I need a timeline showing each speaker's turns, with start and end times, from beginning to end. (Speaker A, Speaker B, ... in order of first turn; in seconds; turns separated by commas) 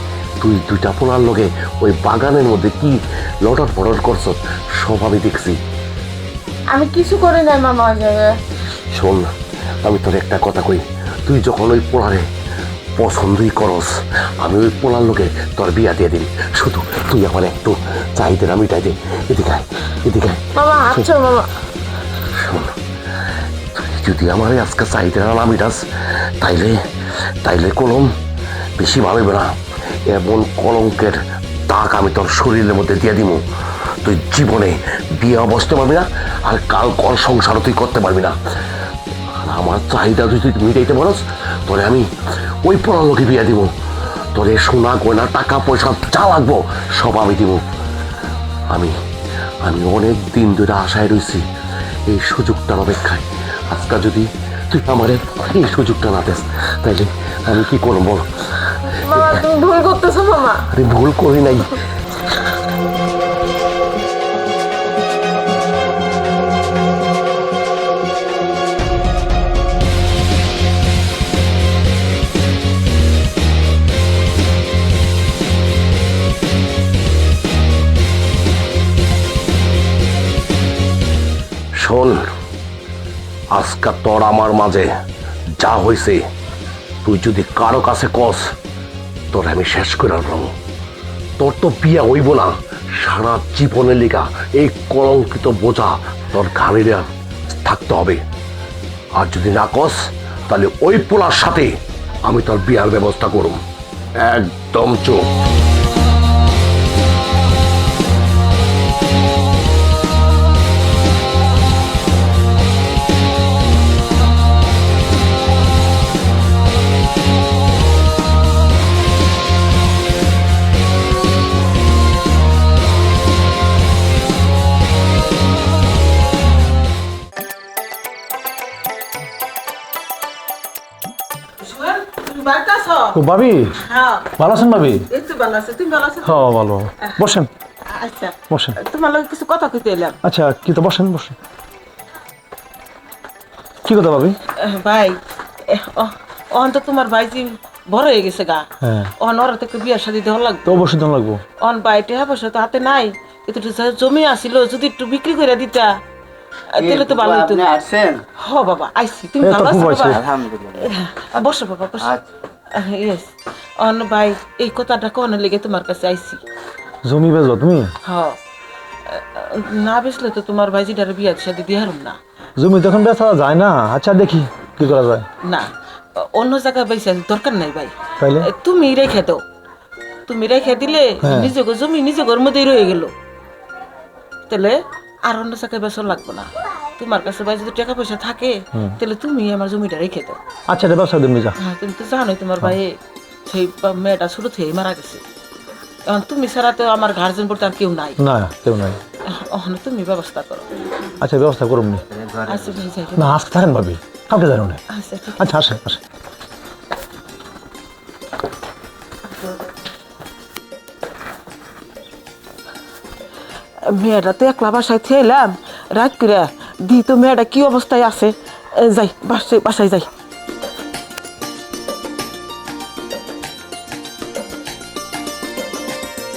Speaker A: 0.4-5.6, Speaker B: 6.7-8.3, Speaker A: 8.9-9.3, Speaker A: 9.8-12.2, Speaker A: 13.0-13.9, Speaker A: 14.4-21.1, Speaker B: 20.6-21.5, Speaker A: 22.2-22.7, Speaker A: 23.7-26.8, Speaker A: 27.4-28.1, Speaker A: 28.8-29.5, Speaker A: 30.1-38.4, Speaker A: 39.4-42.1, Speaker A: 42.6-43.7, Speaker A: 44.3-47.6, Speaker A: 49.6-51.4, Speaker A: 52.1-59.4, Speaker B: 58.9-60.6, Speaker A: 60.7-61.8, Speaker A: 81.8-82.2, Speaker A: 83.5-84.9, Speaker A: 85.6-86.2, Speaker A: 87.0-88.4, Speaker A: 89.3-90.5, Speaker A: 91.4-98.2, Speaker A: 99.2-101.7, Speaker A: 102.2-103.6, Speaker A: 104.2-105.3, Speaker C: 131.6-133.2, Speaker D: 133.1-133.8, Speaker C: 133.8-134.3, Speaker D: 134.4-135.1, Speaker C: 135.1-136.5, Speaker D: 136.2-137.5, Speaker C: 137.8-140.2, Speaker D: 138.5-138.8, Speaker D: 140.2-141.4, Speaker D: 143.8-144.4, Speaker C: 144.6-148.7, Speaker D: 148.8-149.1, Speaker C: 149.2-150.8, Speaker D: 150.7-151.4, Speaker C: 151.6-155.9, Speaker C: 156.7-157.7, Speaker E: 156.8-158.2, Speaker C: 158.4-162.1, Speaker D: 159.4-160.2, Speaker E: 160.2-160.8, Speaker C: 162.7-166.4, Speaker D: 167.0-167.9, Speaker C: 168.0-168.4, Speaker C: 169.1-172.2, Speaker D: 172.6-175.3, Speaker C: 175.4-179.4, Speaker D: 178.2-178.5, Speaker C: 180.3-183.1, Speaker D: 181.2-181.5, Speaker C: 184.5-190.4, Speaker D: 190.7-191.6, Speaker C: 191.6-195.2, Speaker C: 196.1-198.2, Speaker D: 198.2-199.0, Speaker C: 199.3-200.7, Speaker D: 201.2-202.0, Speaker C: 202.4-203.4, Speaker D: 203.2-204.8, Speaker C: 204.9-205.5, Speaker D: 205.4-206.0, Speaker C: 213.9-220.1